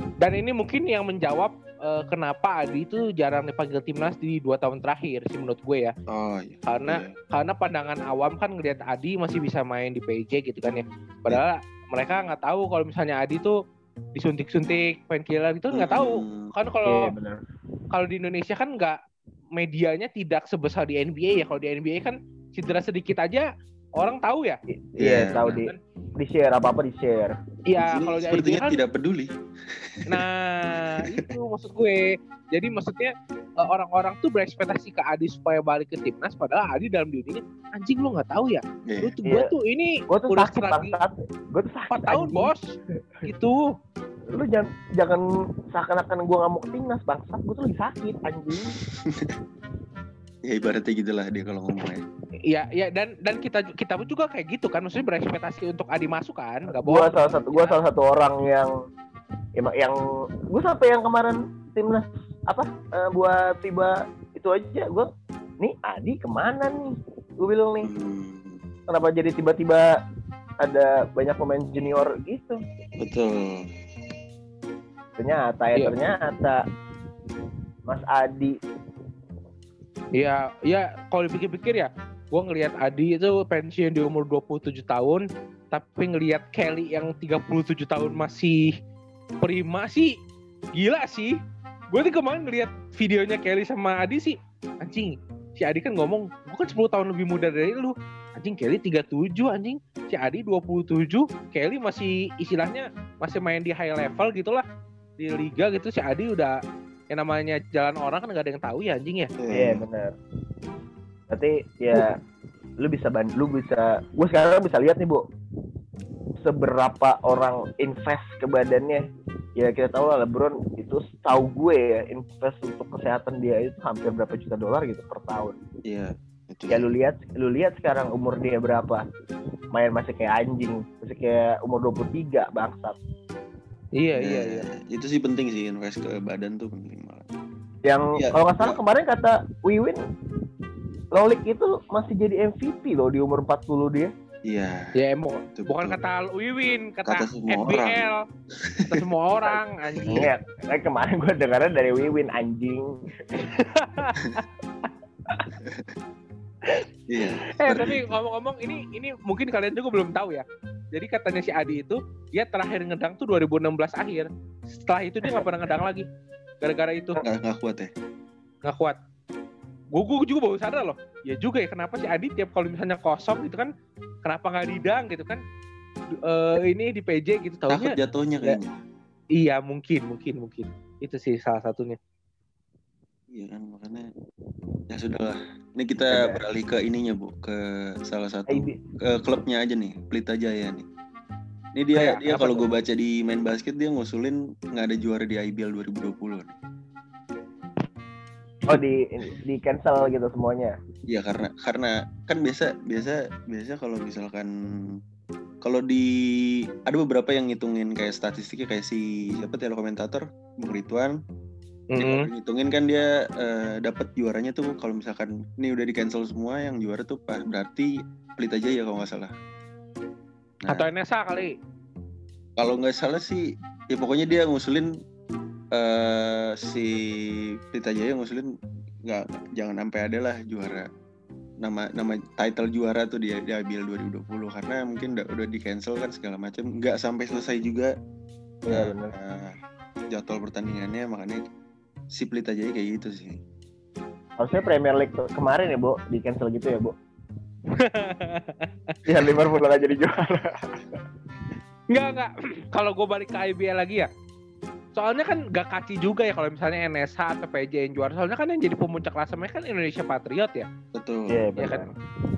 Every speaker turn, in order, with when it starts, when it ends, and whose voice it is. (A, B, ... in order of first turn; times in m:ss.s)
0:00.2-0:05.9 A
0:06.1-0:07.1 B
0:06.6-0:13.5 A
0:14.2-0:17.1 A
0:15.7-0:16.5 B
0:16.8-0:17.4 C
0:17.9-0:19.0 A
0:19.6-0:23.5 A
0:24.0-0:24.6 A
0:24.7-0:27.3 C
0:25.0-0:25.6 B
0:25.3-0:25.8 A
0:27.7-0:28.8 A
0:27.8-0:30.2 B
0:30.1-0:40.9 A
0:30.9-0:31.3 B
0:38.9-0:39.1 B
0:39.3-0:39.5 C
0:40.1-0:42.5 C
0:41.9-0:42.7 A
0:43.2-0:43.7 A
0:44.3-0:48.8 C
0:48.6-0:49.4 B
0:50.4-0:52.0 B
0:52.5-0:57.8 A
0:56.7-0:58.7 C
0:59.6-1:00.0 C
1:00.5-1:05.1 C
1:05.6-1:07.9 C
1:07.8-1:08.6 B
1:08.9-1:09.9 C
1:10.6-1:12.6 C
1:13.0-1:13.6 B
1:15.2-1:16.6 C
1:17.9-1:18.6 C
1:20.1-1:28.7 A
1:29.4-1:30.1 A
1:30.8-1:31.4 A
1:31.9-1:44.6 A
1:45.2-1:46.6 A
1:47.1-1:49.3 A
1:49.4-1:49.8 B
1:49.5-1:50.1 C
1:51.3-1:52.1 C
1:52.8-1:55.2 C
1:56.4-1:59.0 C
1:59.6-2:05.6 C
2:05.9-2:06.9 B
2:06.7-2:09.1 C
2:09.7-2:13.0 C
2:14.0-2:14.7 A
2:14.2-2:17.3 B
2:17.9-2:20.0 C
2:18.1-2:18.8 B
2:21.1-2:24.1 C
2:24.5-2:24.9 B
2:25.0-2:28.2 A
2:25.6-2:26.0 B
2:27.1-2:28.0 B
2:28.6-2:29.0 B
2:28.9-2:30.3 A
2:29.5-2:33.5 C
2:30.0-2:30.3 B
2:33.4-2:34.4 A
2:35.6-2:35.9 B
2:37.1-2:38.2 B
2:37.6-2:46.1 A
2:46.6-2:47.2 A
2:47.2-2:47.9 B
2:48.6-2:49.0 A
2:49.9-2:53.7 A
2:54.2-2:55.4 A
2:56.2-2:57.9 A
2:57.7-2:58.8 B
2:59.4-3:02.0 A
3:03.3-3:04.1 B
3:04.9-3:10.8 B
3:06.1-3:06.4 C
3:08.5-3:08.8 C
3:11.8-3:16.6 B
3:12.0-3:12.6 C
3:18.7-3:20.8 C
3:21.1-3:25.0 B
3:25.6-3:31.1 B
3:31.9-3:32.3 A
3:32.0-3:39.3 B
3:40.7-3:41.6 A
3:42.6-3:44.9 B
3:45.7-3:48.5 B
3:49.1-3:50.9 B
3:51.6-3:57.9 B
3:58.6-3:59.1 C
3:58.7-3:59.6 B
4:00.1-4:01.5 B
4:02.1-4:03.4 B
4:04.4-4:06.9 C
4:07.8-4:09.0 A
4:09.1-4:11.0 C
4:11.9-4:14.1 A
4:15.0-4:20.6 A
4:20.9-4:21.4 B
4:21.3-4:21.9 C
4:21.6-4:21.9 A